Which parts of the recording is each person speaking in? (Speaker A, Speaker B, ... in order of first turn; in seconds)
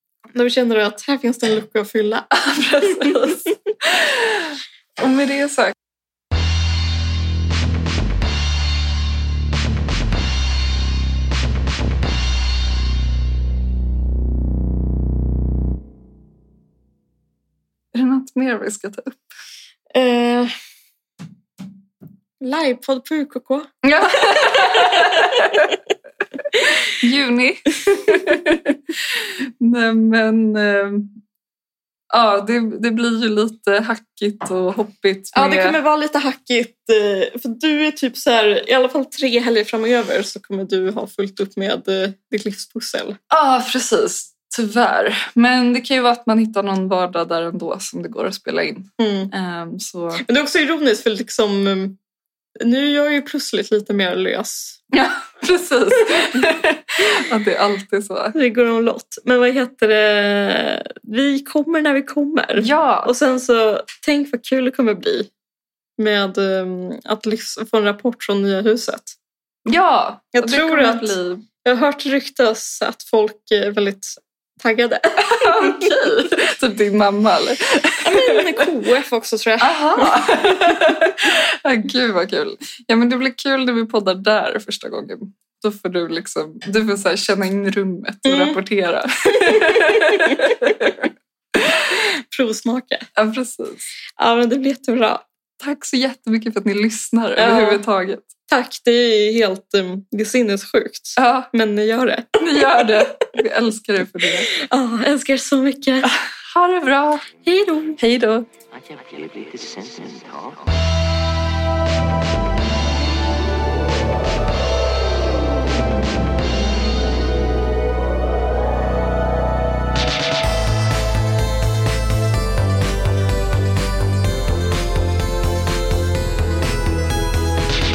Speaker A: 0.3-2.3, 19.9-20.5, 22.4-25.7, 35.3-43.2, 49.0-49.3, 50.2-52.0, 52.6-54.8, 58.3-65.3, 66.0-69.2, 70.3-76.0, 78.0-80.8, 88.3-88.6, 89.5-90.5, 92.0-93.1, 94.2-95.2, 97.4-97.8, 98.5-103.0, 104.5-106.1, 107.5-108.0
Speaker B: 2.3-5.8, 17.9-19.2, 23.8-25.8, 26.5-31.1, 32.1-35.8, 43.3-50.2, 54.9-58.4, 62.6-63.1, 69.7-71.4, 75.2-78.6, 79.6-91.9, 93.2-93.8, 95.6-98.3, 101.2-101.5, 102.4-104.5, 106.4-107.3, 108.0-108.5
Speaker C: 108.7-110.8